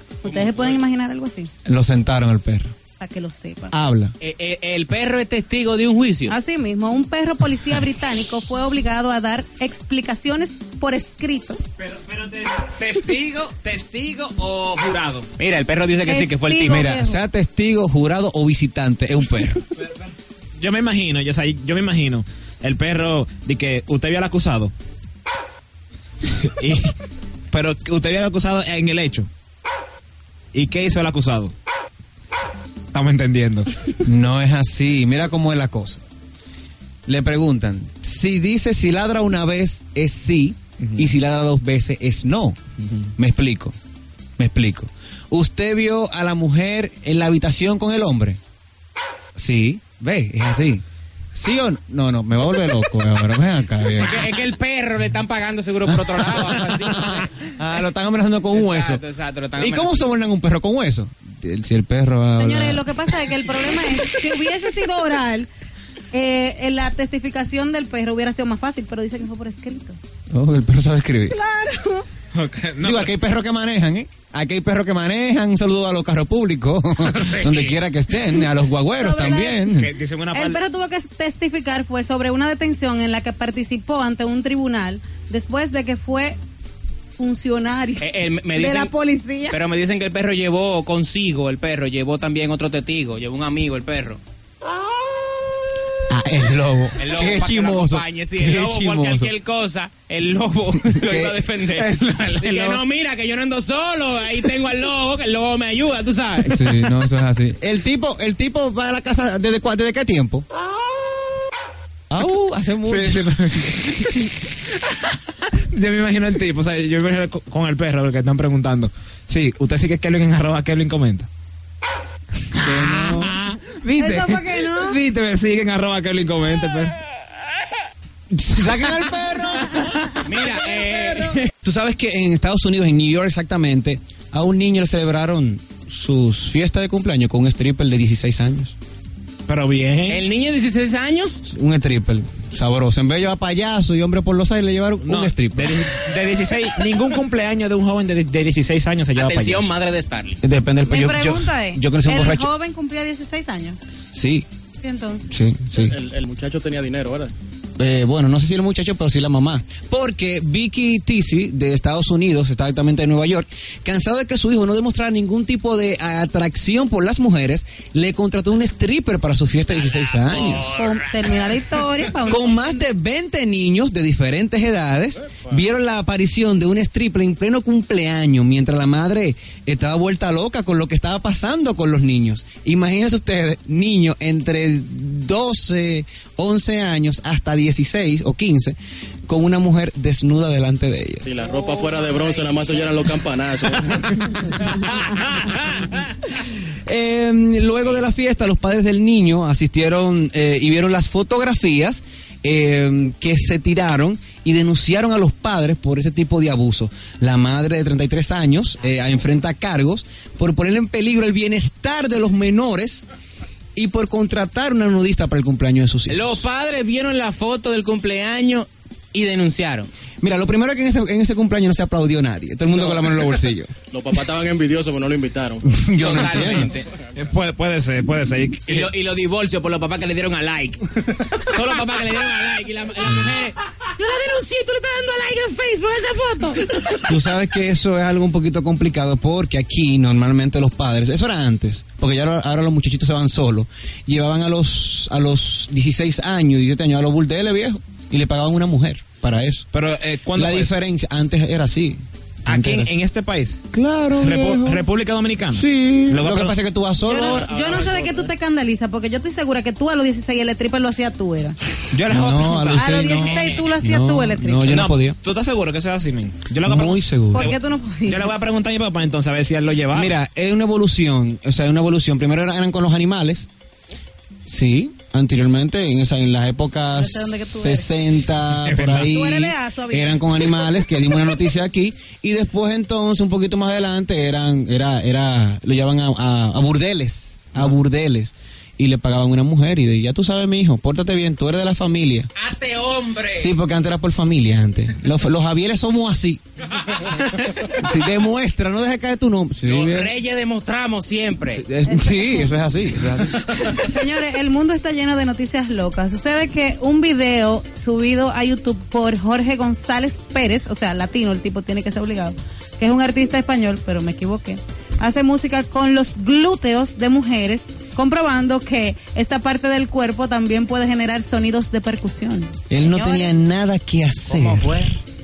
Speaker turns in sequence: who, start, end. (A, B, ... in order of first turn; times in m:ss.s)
0:00.2-0:01.5 A
0:00.2-0:00.8 B
0:01.7-0:02.7 C
0:03.0-0:03.8 A
0:03.7-0:04.2 C
0:04.2-0:06.4 B
0:06.3-0:11.6 A
0:11.8-0:15.3 D
0:15.4-0:16.9 B
0:16.0-0:17.2 A
0:16.6-0:19.6 C
0:19.8-0:24.7 D
0:26.3-0:26.9 D
0:27.5-0:29.3 D
0:30.5-0:31.5 D
0:32.9-0:33.8 D
0:34.0-0:36.0 C
0:37.1-0:42.6 C
0:43.2-0:43.8 C
0:44.4-0:48.4 C
0:49.4-0:54.3 C
0:53.9-0:57.4 B
0:55.8-0:59.0 C
0:58.5-1:00.1 B
0:59.6-1:03.1 C
1:02.4-1:05.5 A
1:06.1-1:10.0 A
1:10.3-1:11.4 C
1:11.3-1:12.1 A
1:12.3-1:13.1 D
1:12.8-1:19.9 C
1:17.0-1:17.7 D
1:19.0-1:19.7 A
1:19.7-1:20.6 D
1:20.3-1:26.4 A
1:27.2-1:29.6 A
1:28.0-1:28.9 B
1:29.5-1:34.2 B
1:36.1-1:39.3 C
1:37.0-1:46.9 B
1:41.0-1:41.7 C
1:42.0-1:42.8 D
1:46.5-1:50.5 C
1:52.1-1:53.3 C
1:52.8-2:01.3 D
2:02.5-2:07.0 D
2:02.6-2:03.4 C
2:04.0-2:05.0 A
2:08.3-2:18.8 C
2:10.3-2:11.5 B
2:19.5-2:20.2 D
2:20.1-2:21.4 B
2:21.5-2:25.9 C
2:25.0-2:29.7 D
2:29.2-2:30.4 B
2:30.4-2:32.5 C
2:30.8-2:33.8 A
2:34.1-2:34.5 C
2:34.8-2:35.3 A
2:35.3-2:36.0 C
2:35.8-2:37.3 E
2:37.8-2:50.7 C
2:49.7-2:51.7 B
2:50.7-2:52.8 A
2:52.3-3:08.8 C
3:09.3-3:11.3 C
3:11.2-3:14.5 E
3:11.8-3:12.0 B
3:14.7-3:16.0 B
3:16.9-3:33.0 C
3:33.8-3:36.4 C
3:36.1-3:39.9 B
3:40.2-3:43.7 C
3:42.8-3:43.0 E
3:43.9-3:45.7 E
3:45.6-3:46.8 C
3:46.0-3:46.9 B
3:47.2-3:48.9 D
3:48.7-3:57.0 B
3:57.0-4:09.6 C
4:09.7-4:10.8 D
4:10.4-4:12.9 C
4:12.5-4:13.6 D
4:13.7-4:14.9 C
4:14.2-4:16.6 D
4:15.5-4:17.5 C
4:17.0-4:21.6 A
4:17.2-4:18.3 E
4:21.9-4:23.4 D
4:22.1-4:25.2 C
4:22.8-4:24.8 A
4:23.3-4:23.7 B
4:24.7-4:30.2 D
4:26.6-4:27.5 C
4:27.3-4:28.4 A
4:29.9-4:33.5 C
4:34.5-4:52.3 C
4:36.9-4:38.0 A
4:38.6-4:39.1 D
4:39.1-4:41.4 A
4:52.4-4:53.5 B
4:53.4-4:56.4 C
4:56.8-4:57.8 B
4:57.8-5:00.1 C
4:59.6-5:01.6 B
5:01.5-5:03.5 C
5:01.8-5:02.6 A
5:03.5-5:23.4 A
5:22.7-5:24.9 C
5:24.3-5:24.9 B